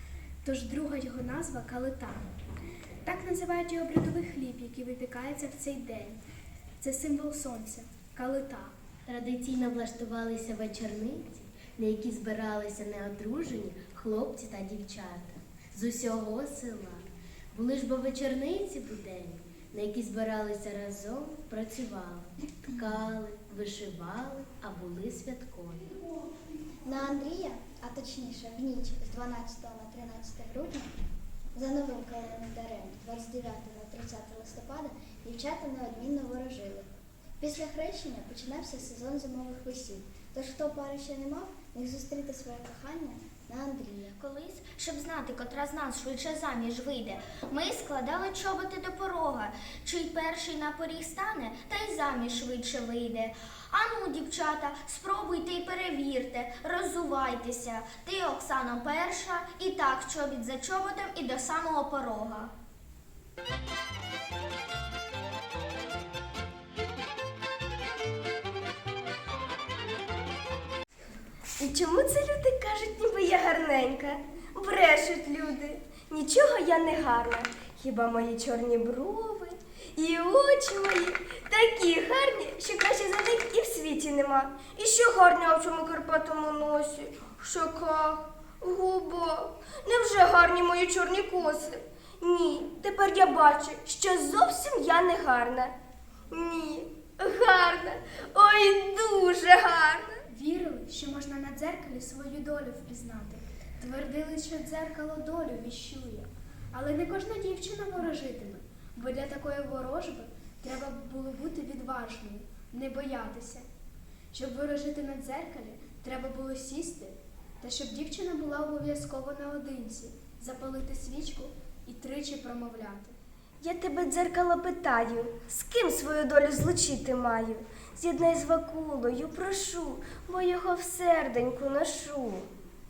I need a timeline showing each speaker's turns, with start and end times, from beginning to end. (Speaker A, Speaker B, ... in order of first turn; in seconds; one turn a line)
Speaker A: 0.4-2.3
Speaker A: 3.0-6.2
Speaker A: 6.8-8.7
Speaker B: 9.1-26.0
Speaker C: 26.8-30.9
Speaker C: 31.6-44.1
Speaker D: 44.2-62.5
Speaker E: 71.6-95.7
Speaker E: 96.3-100.2
Speaker A: 100.3-113.7
Speaker A: 114.3-123.1
Speaker E: 123.6-132.5